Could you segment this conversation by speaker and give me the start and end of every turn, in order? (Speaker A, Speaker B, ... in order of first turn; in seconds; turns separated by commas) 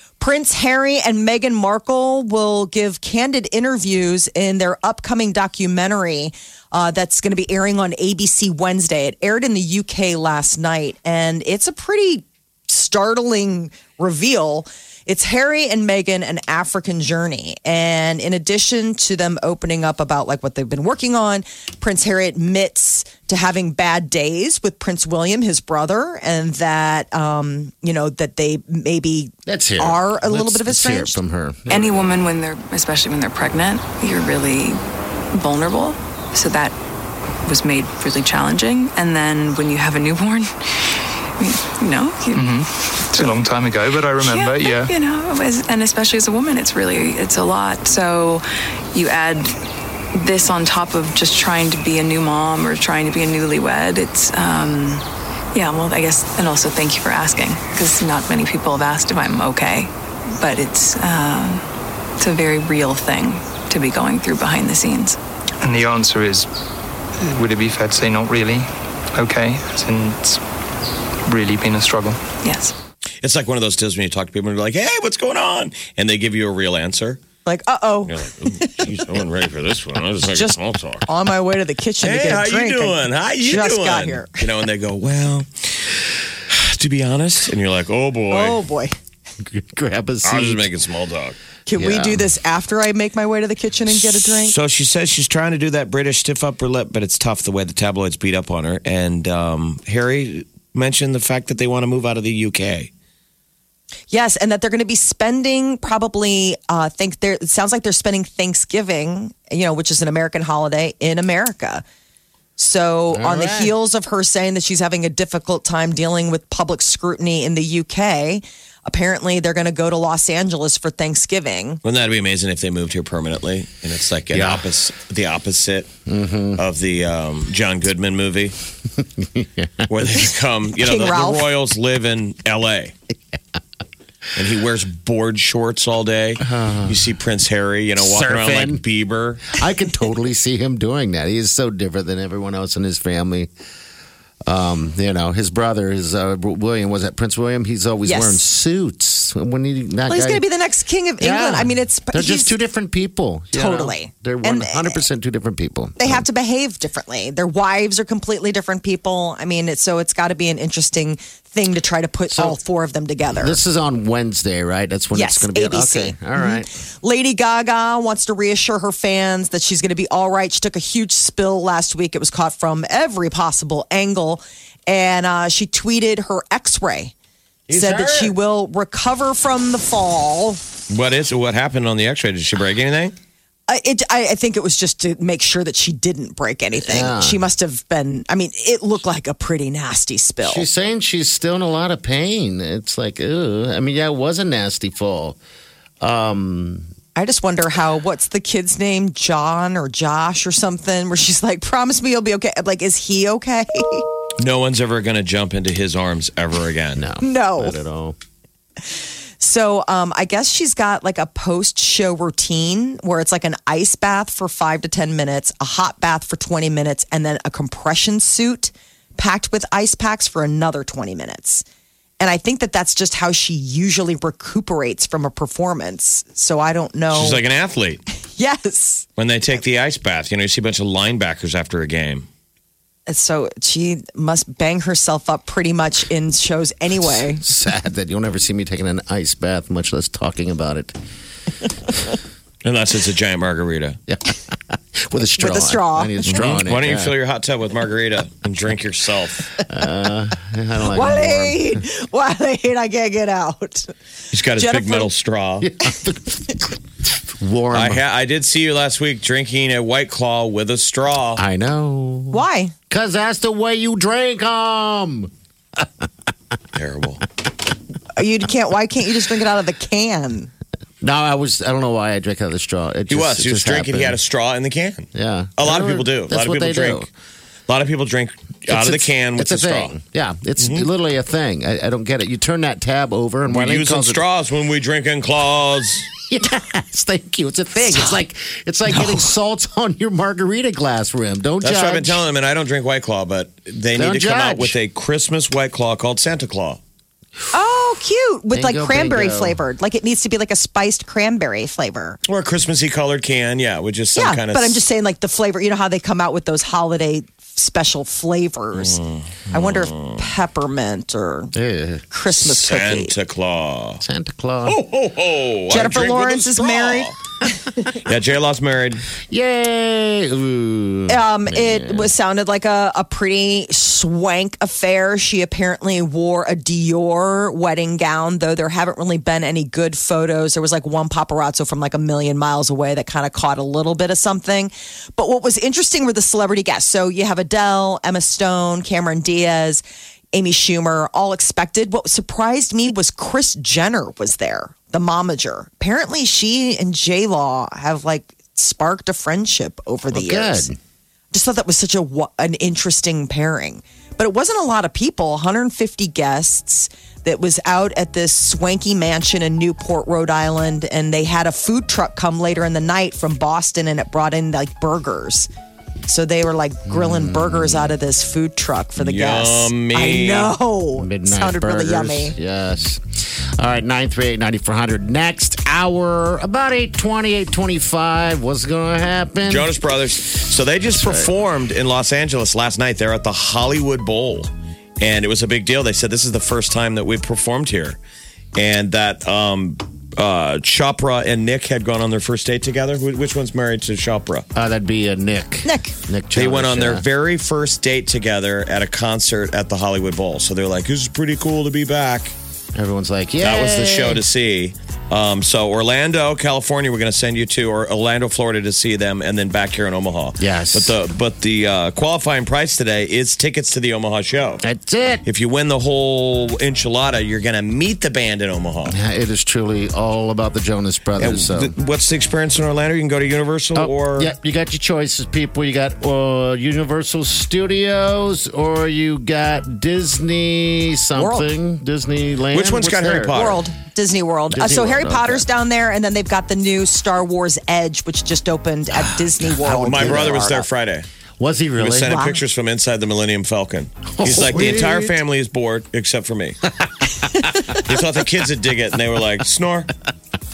Speaker A: 0.2-31.2, Speaker B: 29.5-32.2, Speaker C: 31.7-34.8, Speaker C: 35.3-36.8, Speaker C: 37.4-43.4, Speaker D: 42.3-44.9, Speaker C: 44.2-49.6, Speaker C: 50.1-61.7, Speaker C: 62.2-65.2, Speaker D: 65.6-66.5, Speaker D: 67.2-70.4, Speaker D: 71.3-72.2, Speaker C: 72.4-72.8, Speaker E: 73.2-77.2, Speaker A: 77.5-78.8, Speaker E: 78.1-81.0, Speaker A: 80.2-84.4, Speaker E: 82.0-88.6, Speaker A: 88.3-89.0, Speaker B: 89.4-90.7, Speaker E: 90.2-91.4, Speaker A: 91.7-94.5, Speaker B: 91.8-92.3, Speaker E: 93.9-102.9, Speaker A: 104.1-111.8, Speaker A: 112.6-121.8, Speaker B: 113.1-113.7, Speaker E: 121.8-125.9, Speaker B: 124.3-124.7, Speaker B: 126.1-126.6, Speaker E: 126.6-128.6, Speaker B: 129.0-129.9, Speaker E: 129.9-132.9, Speaker A: 130.8-131.5, Speaker E: 134.3-139.6, Speaker B: 136.4-137.1, Speaker B: 138.0-138.8, Speaker B: 139.5-143.5, Speaker B: 144.5-150.4, Speaker A: 148.1-148.4, Speaker A: 150.1-152.5, Speaker B: 151.2-156.2, Speaker A: 153.5-155.0, Speaker A: 156.0-163.6, Speaker B: 162.3-162.6, Speaker B: 163.3-166.7, Speaker A: 165.1-177.1, Speaker B: 177.7-178.4, Speaker A: 177.7-180.6, Speaker E: 180.9-183.1, Speaker A: 183.7-190.7, Speaker B: 186.8-187.4, Speaker B: 190.4-195.4, Speaker B: 196.0-196.9, Speaker A: 197.2-204.1, Speaker E: 204.4-207.1, Speaker B: 207.0-208.2, Speaker A: 207.2-207.8, Speaker A: 209.4-221.6, Speaker A: 222.2-227.4, Speaker E: 227.1-228.0, Speaker A: 228.4-229.1, Speaker E: 229.2-232.3, Speaker A: 233.1-237.4, Speaker B: 237.4-241.0, Speaker E: 242.6-244.0, Speaker B: 244.1-247.1, Speaker A: 245.4-246.5, Speaker E: 246.3-249.5, Speaker B: 249.7-251.8, Speaker A: 250.9-253.9, Speaker E: 254.3-255.7, Speaker A: 254.5-255.1, Speaker B: 255.6-258.0, Speaker E: 257.7-261.4, Speaker B: 261.4-266.1, Speaker A: 262.3-262.7, Speaker E: 266.7-267.2, Speaker A: 268.1-270.5, Speaker B: 271.0-274.2, Speaker E: 273.1-277.1, Speaker B: 275.1-277.1, Speaker E: 277.7-279.9, Speaker B: 278.7-284.2, Speaker E: 280.6-280.9, Speaker E: 283.5-286.1, Speaker B: 286.2-292.2, Speaker A: 287.8-288.1, Speaker E: 291.6-296.8, Speaker B: 294.0-294.8, Speaker A: 297.5-302.2, Speaker B: 298.5-299.6, Speaker E: 302.3-304.8, Speaker A: 304.1-309.0, Speaker E: 308.7-310.2, Speaker A: 309.5-311.5, Speaker B: 311.5-312.1, Speaker A: 312.1-313.1, Speaker E: 312.3-314.0, Speaker B: 314.0-314.8, Speaker E: 314.7-317.2, Speaker A: 315.7-317.1, Speaker E: 317.9-319.0, Speaker B: 319.3-322.1, Speaker A: 321.1-350.7, Speaker B: 350.1-350.8, Speaker A: 351.3-365.5, Speaker A: 366.1-372.3, Speaker B: 366.9-367.9, Speaker E: 369.0-370.5, Speaker B: 371.0-379.7, Speaker E: 379.5-388.0, Speaker B: 380.9-381.3, Speaker E: 388.6-394.5, Speaker B: 394.5-397.1, Speaker A: 395.6-395.9, Speaker E: 396.4-402.3, Speaker B: 402.8-404.2, Speaker E: 403.4-414.6, Speaker B: 410.4-411.0, Speaker B: 414.6-415.2, Speaker E: 415.2-419.0, Speaker B: 418.9-421.8, Speaker E: 421.2-424.3, Speaker B: 423.8-433.4, Speaker A: 431.2-431.5, Speaker E: 432.5-433.6, Speaker A: 433.3-440.7, Speaker B: 434.5-435.4, Speaker B: 438.9-440.5, Speaker E: 439.8-441.1, Speaker B: 441.4-442.2, Speaker E: 441.8-446.8, Speaker A: 442.1-442.4, Speaker B: 444.2-445.2, Speaker E: 447.5-449.9